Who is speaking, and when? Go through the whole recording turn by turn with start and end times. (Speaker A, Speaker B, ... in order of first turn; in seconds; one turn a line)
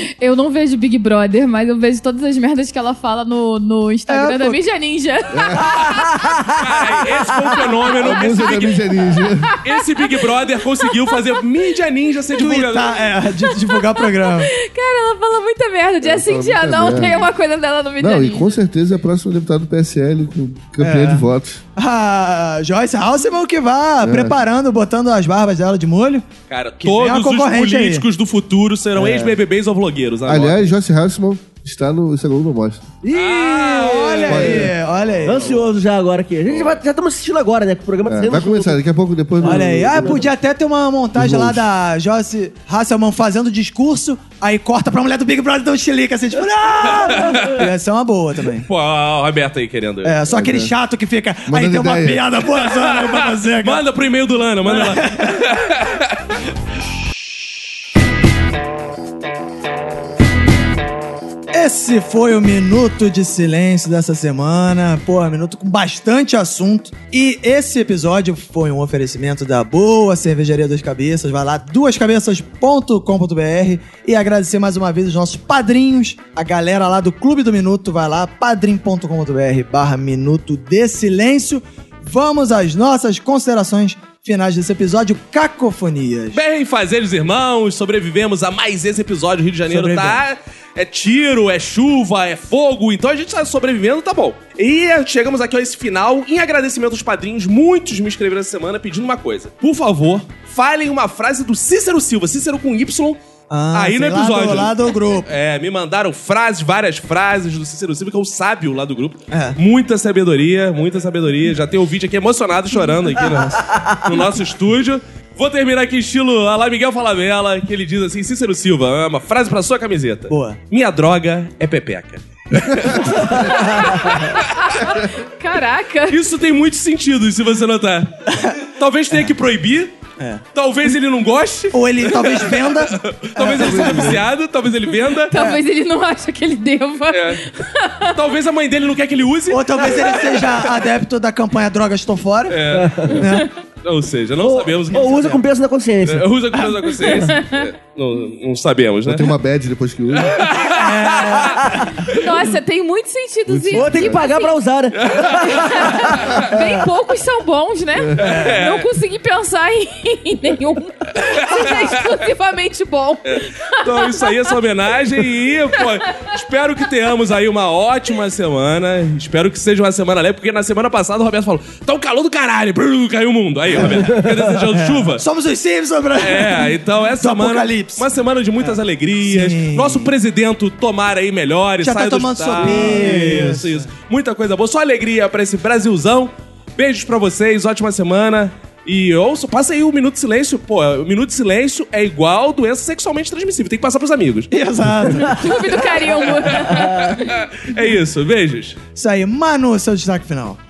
Speaker A: 0.2-6.2
Speaker B: 4.1-4.6
Speaker C: 5.3-5.7
Speaker D: 6.6-8.9
Speaker C: 8.0-9.6
Speaker D: 9.6-13.1
Speaker A: 10.8-11.2
Speaker B: 12.4-14.5
Speaker A: 13.6-18.6
Speaker C: 16.0-17.3
Speaker C: 18.0-21.6
Speaker B: 20.8-26.3
Speaker C: 24.0-24.4
Speaker D: 26.5-30.7
Speaker B: 26.8-28.1
Speaker B: 29.0-29.3
Speaker C: 30.3-32.9
Speaker B: 33.0-35.6
Speaker D: 33.1-34.7
Speaker E: 34.1-34.5
Speaker C: 34.3-34.8
Speaker E: 35.2-38.8
Speaker C: 38.1-40.3
Speaker E: 39.4-40.3
Speaker B: 39.4-48.7
Speaker C: 41.1-41.6
Speaker D: 46.9-47.7
Speaker D: 48.6-50.1
Speaker B: 50.0-53.8
Speaker C: 50.3-50.7
Speaker C: 51.5-52.2
Speaker D: 52.8-56.2
Speaker B: 54.6-55.5
Speaker B: 61.5-86.4
Speaker D: 86.3-103.2
Speaker B: 89.7-90.2
Speaker B: 103.5-105.3
Speaker D: 103.7-124.8
Speaker B: 109.3-109.6
Speaker E: 113.7-114.0
Speaker B: 120.3-120.6
Speaker E: 123.4-124.1
Speaker A: 124.3-126.2
Speaker D: 126.1-130.0
Speaker B: 130.2-130.4
Speaker D: 130.6-135.4
Speaker B: 131.7-134.2
Speaker C: 133.5-134.2
Speaker A: 135.3-138.2
Speaker B: 135.3-135.6
Speaker D: 137.1-137.4
Speaker D: 138.1-140.7
Speaker B: 139.5-143.5
Speaker D: 142.5-143.3
Speaker E: 142.7-143.2
Speaker D: 143.8-145.1
Speaker E: 144.4-146.3
Speaker B: 144.9-145.4
Speaker D: 146.1-149.3
Speaker C: 149.1-150.5
Speaker D: 150.2-151.6
Speaker B: 150.7-152.0
Speaker A: 152.0-154.6
Speaker C: 153.5-154.2
Speaker E: 153.7-156.0
Speaker D: 155.0-155.6
Speaker A: 155.4-164.6
Speaker D: 158.2-158.9
Speaker B: 158.2-158.6
Speaker D: 161.2-162.1
Speaker D: 163.2-175.2
Speaker B: 173.8-178.1
Speaker D: 176.2-194.5
Speaker B: 178.6-180.1
Speaker B: 181.8-183.9
Speaker E: 182.6-183.6
Speaker B: 194.5-195.9
Speaker A: 195.1-197.3
Speaker D: 196.5-198.8
Speaker B: 199.0-200.6